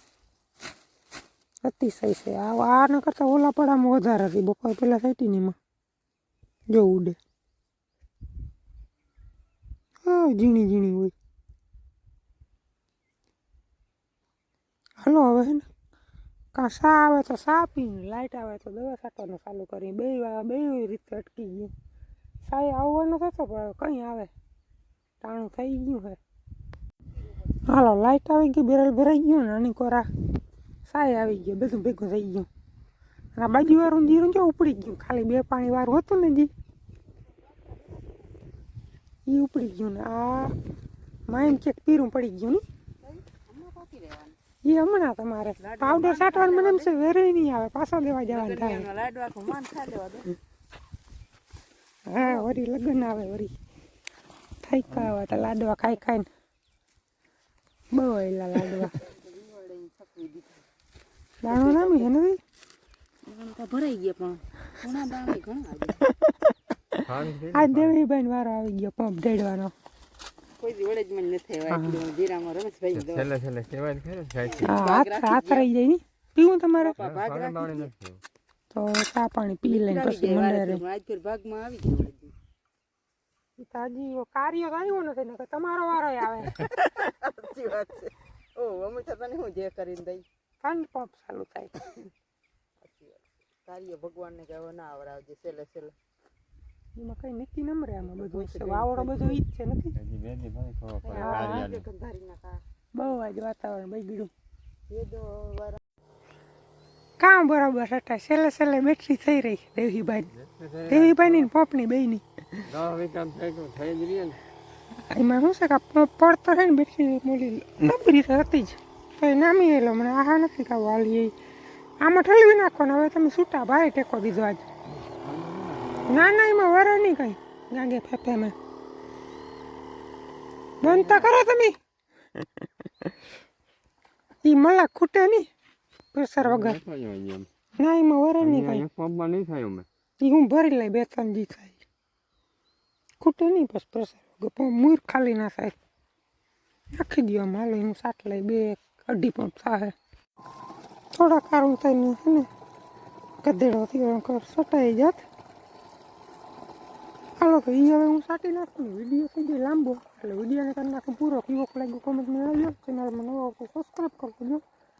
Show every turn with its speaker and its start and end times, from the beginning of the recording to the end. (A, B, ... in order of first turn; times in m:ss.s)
0:01.6-0:05.6 A
0:06.7-0:07.2 A
0:10.0-0:11.1 A
0:15.0-0:15.7 A
0:16.5-0:21.7 A
0:22.4-0:24.3 A
0:25.2-0:26.2 A
0:27.7-0:30.1 A
0:30.8-0:32.5 A
0:33.3-0:36.5 A
0:37.7-0:38.1 B
0:39.2-0:40.5 A
0:41.3-0:42.6 A
0:43.0-0:44.4 B
0:44.6-0:48.9 A
0:45.6-0:47.0 B
0:48.3-0:50.4 B
0:52.1-0:53.5 A
0:54.6-0:56.3 A
0:57.9-0:59.0 A
0:58.9-1:00.6 B
1:01.4-1:02.4 A
1:01.4-1:02.1 B
1:03.2-1:06.1 B
1:06.1-1:06.4 A
1:07.0-1:08.0 C
1:07.5-1:09.7 A
1:10.6-1:13.3 B
1:11.7-1:12.0 A
1:12.9-1:14.8 C
1:14.6-1:15.7 B
1:14.6-1:17.0 A
1:16.8-1:17.9 B
1:17.0-1:18.2 C
1:18.7-1:20.8 A
1:19.6-1:22.3 B
1:23.6-1:26.7 A
1:26.6-1:30.2 B
1:30.6-1:31.9 A
1:32.8-1:35.9 B
1:37.0-1:39.9 A
1:38.1-1:39.4 B
1:40.0-1:41.9 C
1:41.0-1:42.6 B
1:41.1-1:41.7 A
1:42.9-1:44.3 A
1:44.9-1:45.8 B
1:47.2-1:50.3 A
1:50.3-1:51.5 C
1:50.9-1:52.6 A
1:52.7-1:54.4 C
1:55.1-2:01.3 A
2:02.0-2:04.6 A
2:04.9-2:06.3 C
2:06.1-2:08.5 A
2:10.8-2:11.8 A
2:10.9-2:11.3 C
2:14.4-2:15.5 A
2:16.1-2:16.8 A
2:16.4-2:17.5 C
2:17.8-2:18.8 A
2:18.4-2:19.9 C
2:20.2-2:21.8 A
2:23.2-2:25.8 A
2:26.9-2:29.9 A
2:31.1-2:32.5 A
2:33.4-2:35.2 A
2:37.4-2:44.6 A